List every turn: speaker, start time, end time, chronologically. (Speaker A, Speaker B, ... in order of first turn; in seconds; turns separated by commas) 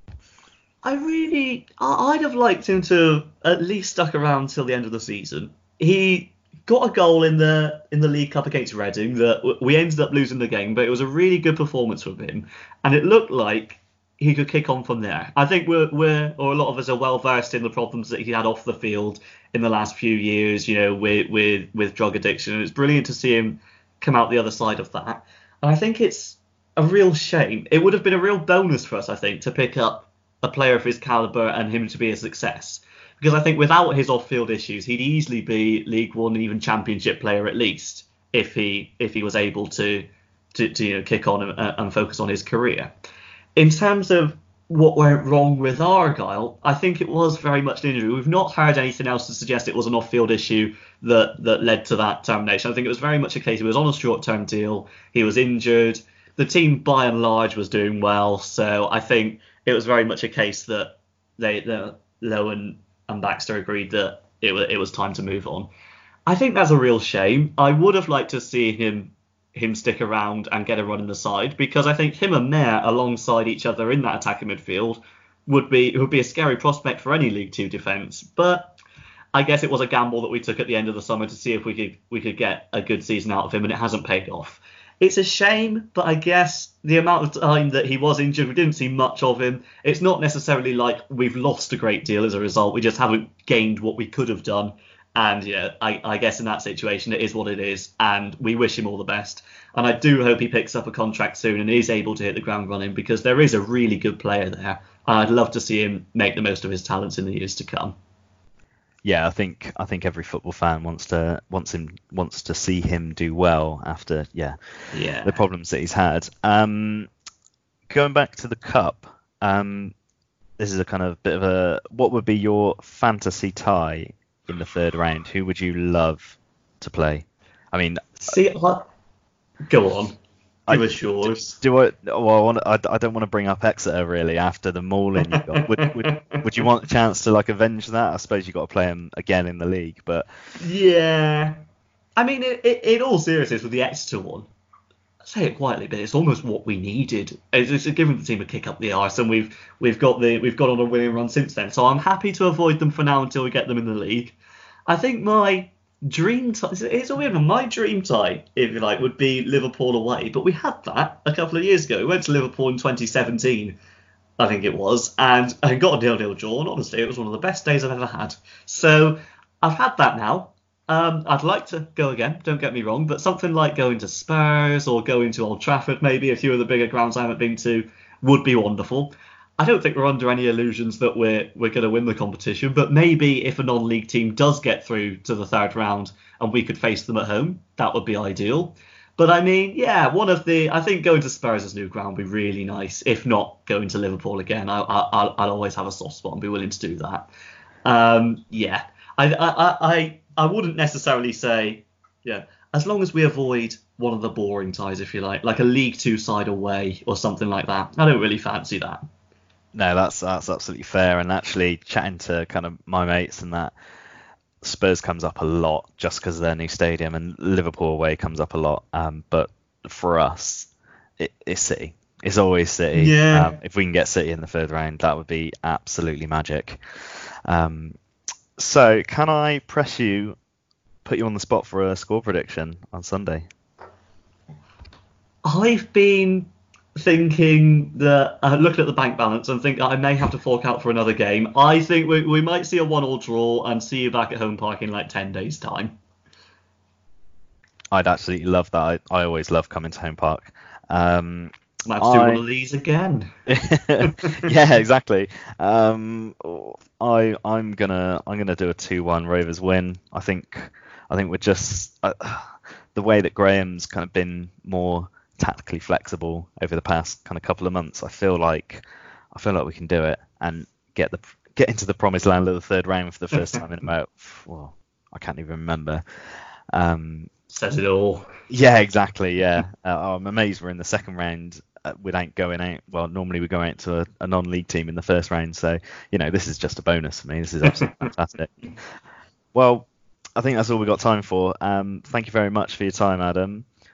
Speaker A: 0.8-42.9, Speaker A: 43.6-65.7, Speaker A: 66.3-78.8, Speaker A: 79.3-108.0, Speaker B: 109.0-114.6, Speaker A: 114.9-115.4, Speaker B: 115.2-117.1, Speaker B: 117.9-119.9, Speaker B: 120.6-128.4, Speaker A: 128.3-128.9, Speaker A: 129.7-130.2, Speaker B: 130.7-140.3, Speaker A: 130.7-131.6, Speaker A: 135.3-136.4, Speaker A: 140.6-141.6, Speaker A: 142.2-144.5, Speaker A: 145.2-154.4, Speaker A: 154.9-163.8, Speaker A: 164.4-197.3, Speaker A: 197.8-209.0, Speaker B: 209.7-213.7, Speaker B: 214.6-226.8, Speaker A: 222.9-223.6, Speaker B: 227.5-227.9, Speaker B: 228.6-230.4, Speaker B: 231.1-233.5, Speaker A: 235.5-246.0, Speaker B: 247.9-252.4, Speaker A: 251.9-253.3, Speaker B: 253.5-276.0, Speaker A: 254.0-254.5, Speaker A: 273.3-273.6, Speaker B: 276.7-277.3, Speaker A: 277.5-278.3, Speaker B: 278.5-288.5, Speaker A: 287.8-288.1, Speaker B: 289.5-293.7